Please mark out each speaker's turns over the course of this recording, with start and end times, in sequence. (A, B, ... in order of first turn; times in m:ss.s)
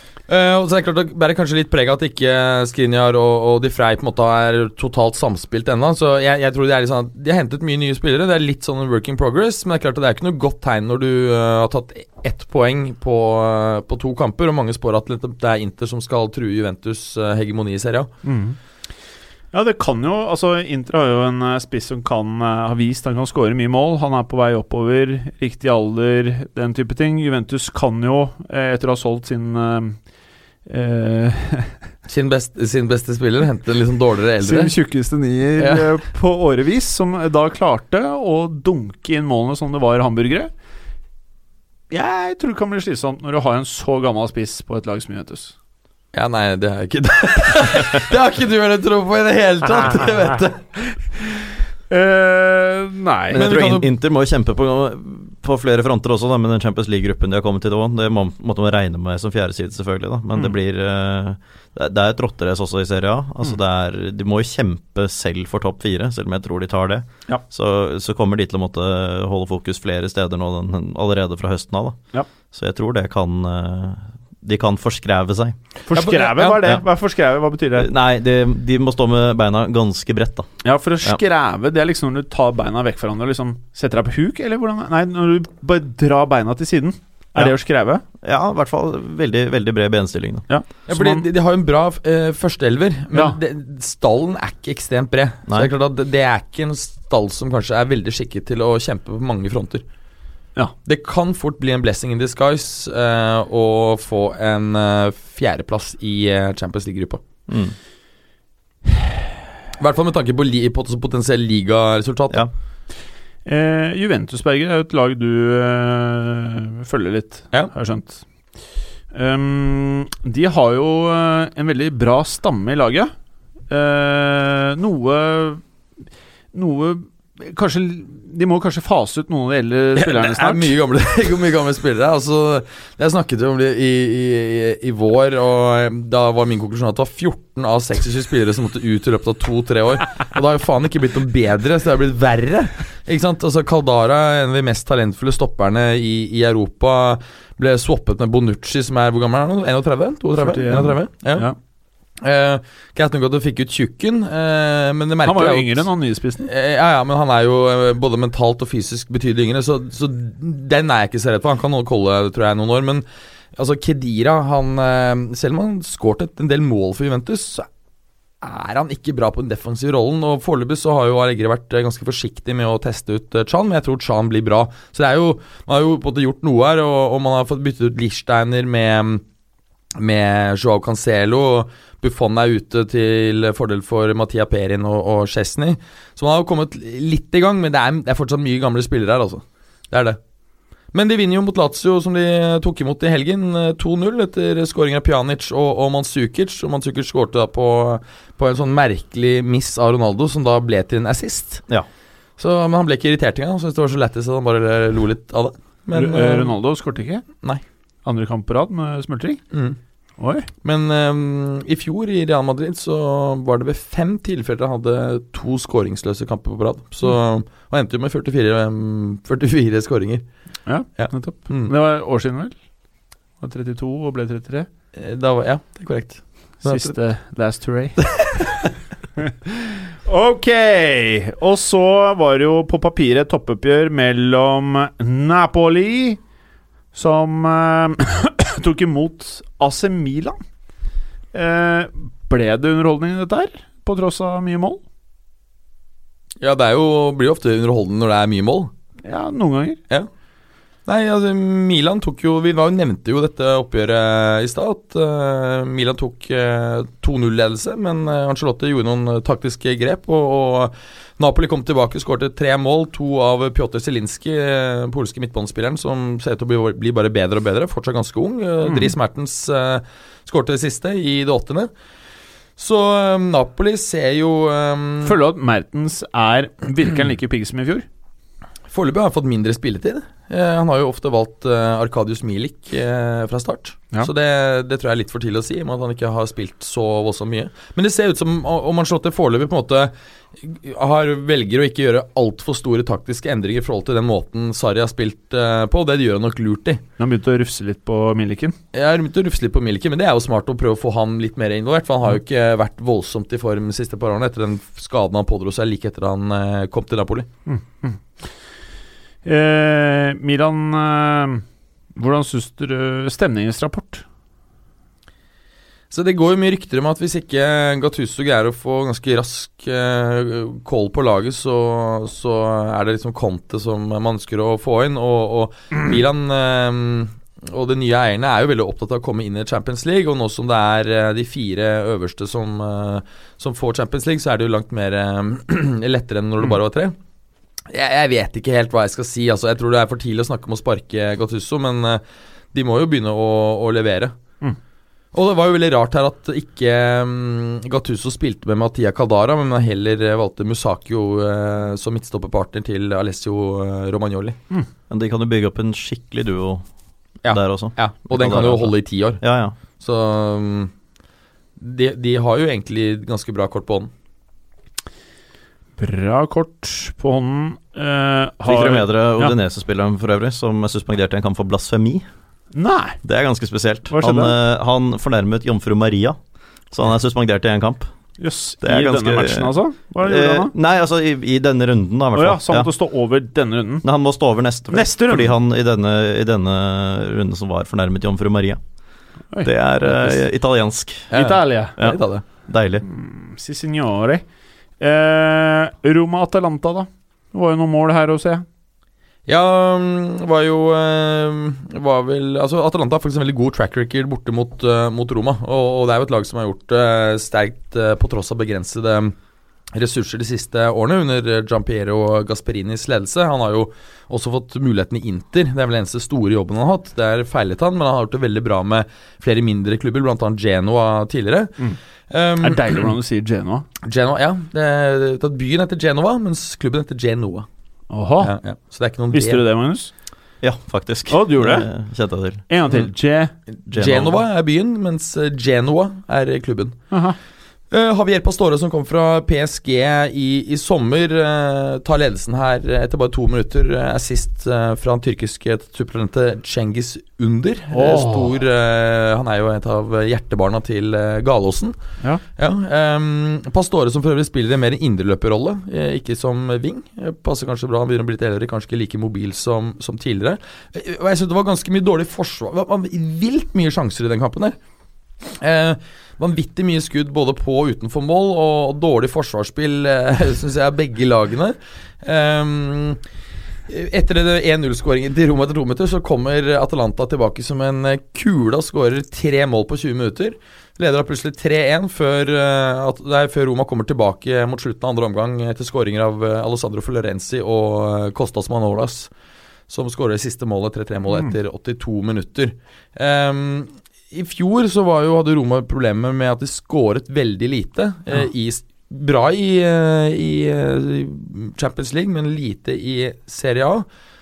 0:00.3-0:18.1 A
0:18.2-0:18.6 B
0:19.5-0:30.0 B
0:30.7-0:31.7 B
0:32.1-0:34.7 A
0:34.4-0:40.5 B
0:35.6-0:35.9 A
0:41.9-0:45.5 B
0:46.1-0:50.7 A
0:51.9-0:53.5 B
0:53.3-1:12.0 C
0:53.3-0:53.9 A
1:12.5-1:15.6 C
1:15.9-1:17.9 B
1:15.9-1:16.6 A
1:17.8-1:20.5 C
1:20.6-1:28.0 B
1:28.2-1:30.4 C
1:30.5-1:31.2 B
1:30.9-1:39.8 A
1:33.1-1:33.4 B
1:40.8-1:47.2 A
1:47.5-1:47.7 C
1:49.8-1:52.4 A
1:53.4-1:58.2 B
1:59.1-2:03.1 B
2:03.7-2:05.6 B
2:06.5-2:10.7 B
2:10.0-2:31.5 A
2:30.4-2:31.6 B
2:32.2-2:35.9 A
2:35.2-2:36.5 B
2:36.4-2:43.0 A
2:43.6-2:47.7 A
2:48.4-2:59.2 A
3:00.0-3:10.2 A
3:10.9-3:21.6 A
3:22.4-3:26.5 A
3:25.9-3:27.2 B
3:28.0-3:29.4 B
3:29.5-3:29.8 A
3:30.2-3:30.5 B
3:30.6-3:40.2 A
3:40.7-3:42.6 B
3:41.0-3:41.7 A
3:43.4-3:44.7 B
3:45.0-3:46.9 A
3:46.6-3:48.4 B
3:48.0-3:48.7 A
3:49.2-3:56.2 B
3:56.9-4:00.4 B
4:01.3-4:04.8 B
4:06.4-4:08.7 A
4:09.0-4:09.8 B
4:10.9-4:31.7 A
4:28.6-4:28.9 B
4:32.6-4:35.2 A
4:35.0-4:37.8 B
4:38.7-4:56.8 A
4:57.0-4:58.6 B
4:58.7-5:07.3 A
5:07.5-5:08.0 B
5:09.2-5:11.4 B
5:12.0-5:14.0 B
5:15.9-5:37.0 A
5:37.7-5:42.0 A
5:42.5-5:44.1 A
5:45.1-5:54.4 A
5:54.9-5:56.6 C
5:57.2-5:59.2 A
5:57.3-5:59.6 C
5:59.8-6:00.7 A
6:01.6-6:03.9 A
6:05.8-6:09.3 B
6:08.4-6:12.0 C
6:12.5-6:13.0 B
6:13.0-6:16.2 C
6:13.9-6:14.4 B
6:16.7-6:17.9 C
6:18.2-6:20.5 B
6:18.6-6:22.7 C
6:22.2-6:23.8 B
6:23.8-6:28.6 C
6:24.7-6:25.4 B
6:29.3-6:30.2 B
6:29.4-6:31.1 C
6:31.1-6:32.2 A
6:31.1-6:31.8 B
6:31.8-6:32.8 C
6:32.8-6:34.2 B
6:34.8-6:38.4 B
6:39.3-6:49.2 A
6:49.7-7:01.6 A
7:02.1-7:02.9 A
7:02.4-7:03.7 B
7:03.8-7:07.4 A
7:07.9-7:08.3 B
7:08.2-7:09.4 A
7:09.1-7:09.9 B
7:10.4-7:12.4 C
7:11.1-7:11.7 B
7:12.5-7:13.3 B
7:13.7-7:16.8 A
7:13.7-7:14.2 C
7:16.9-7:17.2 B
7:17.7-7:31.8 A
7:27.7-7:28.4 B
7:32.4-7:44.6 A
7:45.4-7:53.0 A
7:53.7-8:09.1 A
8:09.7-8:23.9 A